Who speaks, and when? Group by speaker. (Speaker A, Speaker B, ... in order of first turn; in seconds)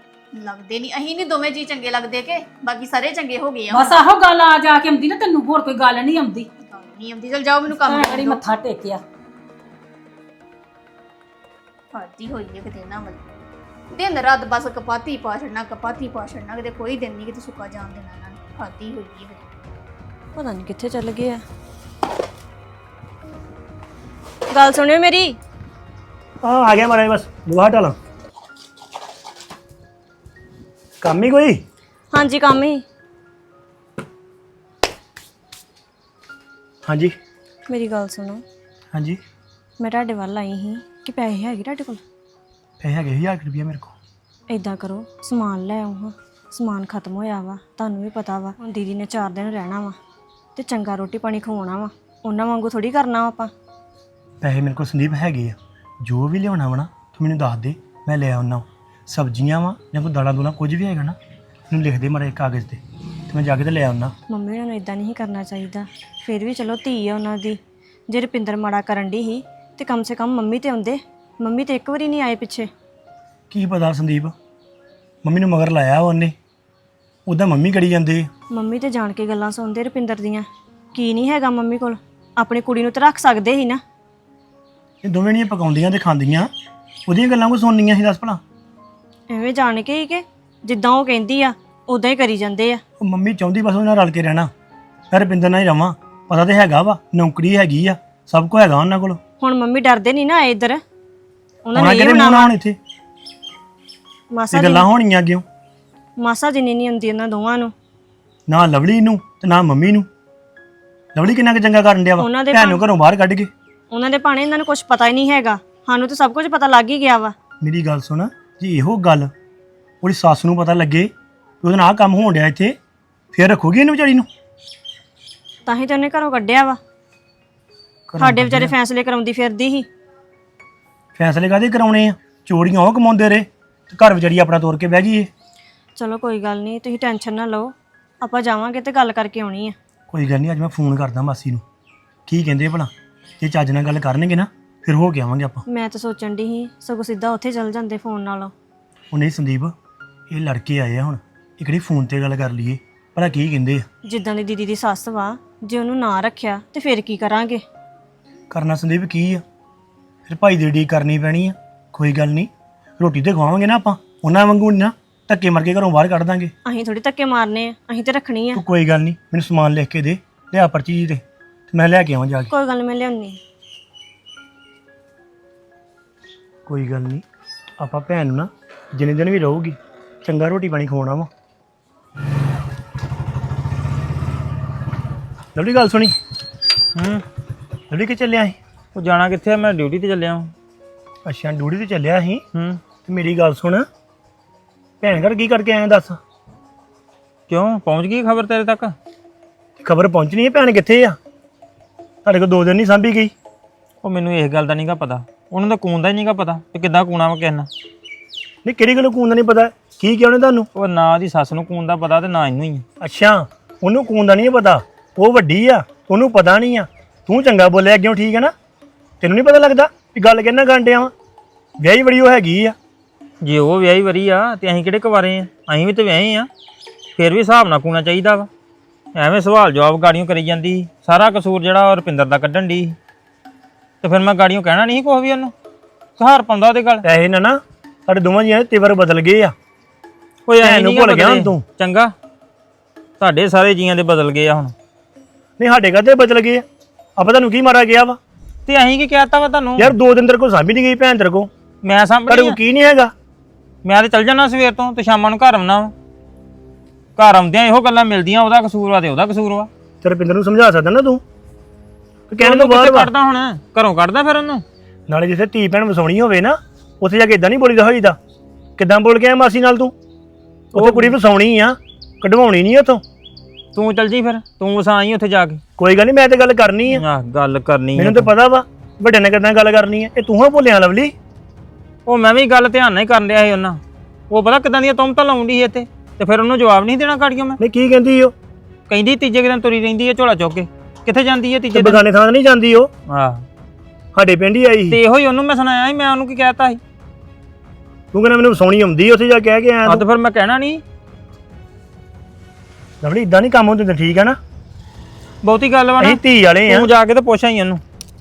Speaker A: 0.3-4.0, 6.7-8.4, 11.9-13.2, 13.9-19.4
Speaker B: 3.7-6.5, 7.7-9.0
Speaker C: 20.4-21.4, 24.5-25.4, 32.1-32.8, 37.7-38.4, 39.8-42.0, 44.5-50.0, 50.5-53.5, 64.3-72.7, 78.5-83.8, 89.3-92.8, 99.4-100.8, 101.7-102.5, 104.3-104.9, 106.2-107.7, 112.2-112.8, 113.9-117.3, 125.7-126.8, 128.2-129.9, 135.9-139.8, 145.7-148.5, 154.0-157.6, 166.6-168.6, 172.5-173.4
Speaker D: 26.4-28.0, 31.0-31.6, 36.9-37.1, 38.9-39.2, 42.8-43.9, 54.4-61.1, 61.7-64.1, 73.5-74.3, 75.2-76.3, 77.2-78.3, 85.0-86.5, 87.1-88.4, 93.0-94.5, 95.1-99.2, 101.8-102.8, 104.5-105.4, 108.5-110.1, 111.1-113.5, 117.6-119.3, 120.0-121.1, 121.6-122.8, 123.3-124.3, 128.1-128.7, 131.2-135.3, 140.1-141.6, 142.3-145.6, 149.1-149.7, 150.3-153.8, 158.5-159.4, 160.2-166.5, 168.5-172.5, 176.7-177.2, 177.8-181.3, 185.6-186.2, 187.9-188.6, 191.2-192.4, 193.0-193.8, 195.0-196.2, 199.8-201.2, 202.2-203.3, 208.6-210.7, 213.0-218.5, 219.2-221.1, 221.8-222.7, 237.0-239.5, 240.6-241.6, 245.6-246.6, 247.2-248.2, 249.8-251.5, 252.3-253.1, 260.0-261.2, 262.3-263.1, 265.1-268.2, 268.8-269.9, 270.7-273.0, 275.8-277.0, 277.9-281.1, 287.6-288.3, 291.7-292.9, 294.1-295.0, 298.1-300.0, 303.0-304.4, 306.0-306.9
Speaker E: 186.9-187.2, 188.9-190.5, 192.5-192.8, 197.5-198.9, 204.0-207.7, 210.7-212.8, 223.4-226.5, 227.2-228.5, 229.2-232.9, 234.0-235.5, 236.2-237.0, 240.5-242.1, 243.2-244.7, 248.7-249.9, 251.8-252.6, 253.8-255.9, 257.1-259.7, 262.4-264.6, 270.7-271.1, 273.7-275.6, 276.9-278.3, 282.1-287.6, 288.9-292.0, 293.1-293.4, 294.9-296.8, 299.9-300.8, 305.4-307.8